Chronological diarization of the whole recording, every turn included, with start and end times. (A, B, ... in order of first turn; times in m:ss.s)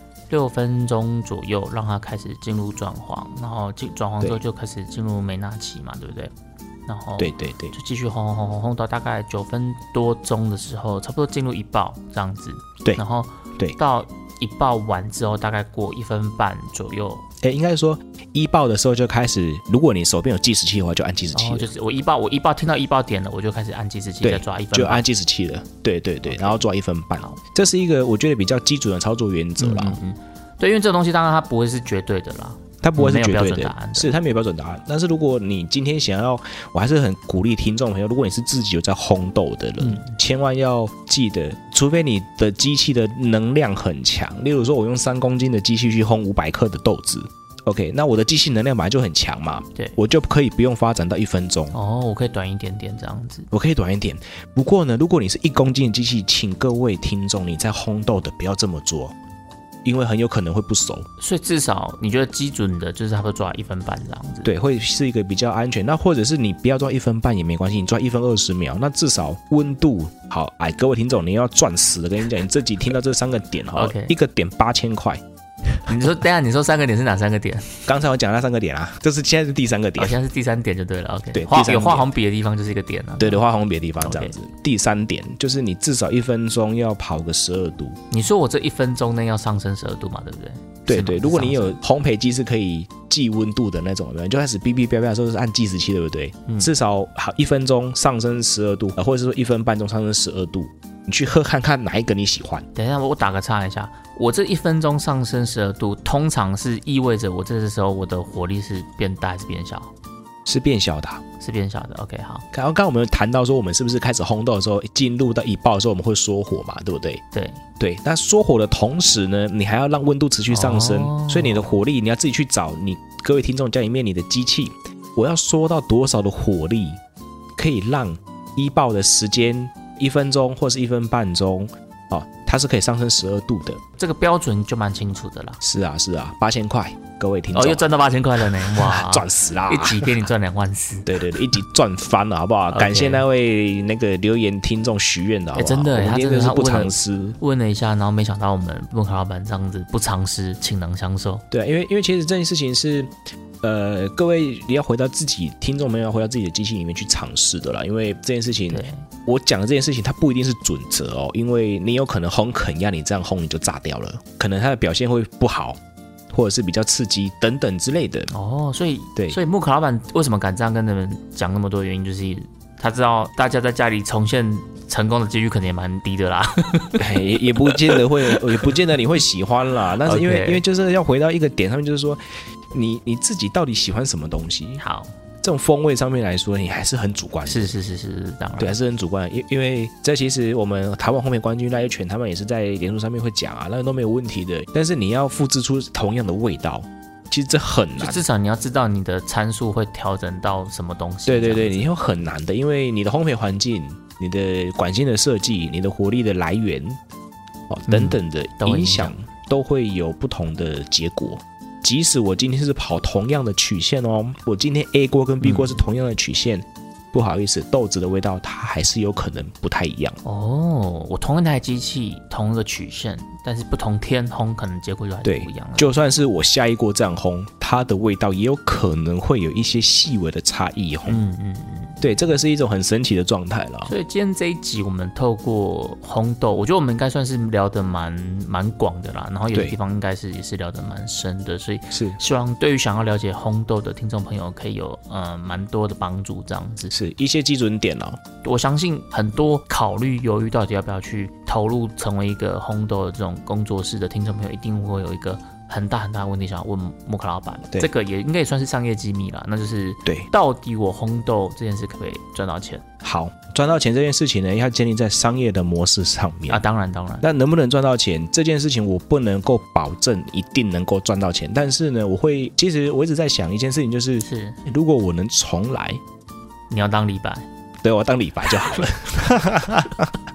0:00.3-0:06.3 A
0:06.8-0:17.2 A
0:07.2-0:07.7 B
0:17.4-0:21.7 B
0:21.3-0:25.0 A
0:24.2-0:30.0 B
0:26.2-0:26.6 A
0:29.6-0:34.1 A
0:32.8-0:51.8 B
0:39.8-0:40.1 A
0:51.7-0:53.5 A
0:53.5-0:59.1 B
0:59.8-1:01.1 B
1:01.2-1:04.5 A
1:04.4-1:15.2 B
1:13.7-1:14.2 A
1:15.9-1:17.9 A
1:17.8-1:20.2 B
1:20.0-1:23.4 A
1:21.3-1:22.1 B
1:23.2-1:28.0 B
1:24.0-1:24.3 A
1:28.1-1:31.8 A
1:30.8-1:42.7 B
1:42.7-1:49.9 A
1:50.4-1:51.2 B
1:51.4-1:52.4 A
1:52.5-1:57.2 B
1:57.3-1:57.6 A
1:57.8-2:07.0 B
2:00.5-2:01.7 A
2:07.6-2:13.8 B
2:14.0-2:15.6 A
2:15.6-2:17.9 B
2:17.5-2:21.4 A
2:18.6-2:20.2 B
2:21.0-2:27.4 B
2:22.7-2:23.2 A
2:25.5-2:31.4 A
2:31.5-2:45.8 B
2:38.7-2:39.0 A
2:46.3-2:48.3 B
2:48.3-2:57.0 A
2:57.0-3:02.2 B
2:57.7-2:58.7 A
3:00.0-3:00.6 A
3:02.7-3:04.8 B
3:04.8-3:05.1 A
3:05.4-3:07.7 B
3:07.4-3:08.8 A
3:08.6-3:18.2 B
3:18.0-3:22.0 A
3:21.3-3:27.0 B
3:27.7-3:40.2 B
3:27.9-3:29.1 A
3:35.4-3:35.8 A
3:40.2-3:45.9 A
3:45.2-3:51.2 B
3:51.0-3:52.1 A
3:52.0-3:53.9 B
3:53.8-4:06.9 A
4:01.9-4:02.2 B
4:06.9-4:08.2 B
4:08.4-4:22.8 A
4:23.0-4:26.6 B
4:26.5-4:27.2 A
4:27.2-4:36.0 B
4:34.2-4:34.6 A
4:36.7-4:37.5 A
4:37.8-4:40.2 B
4:38.6-4:38.9 A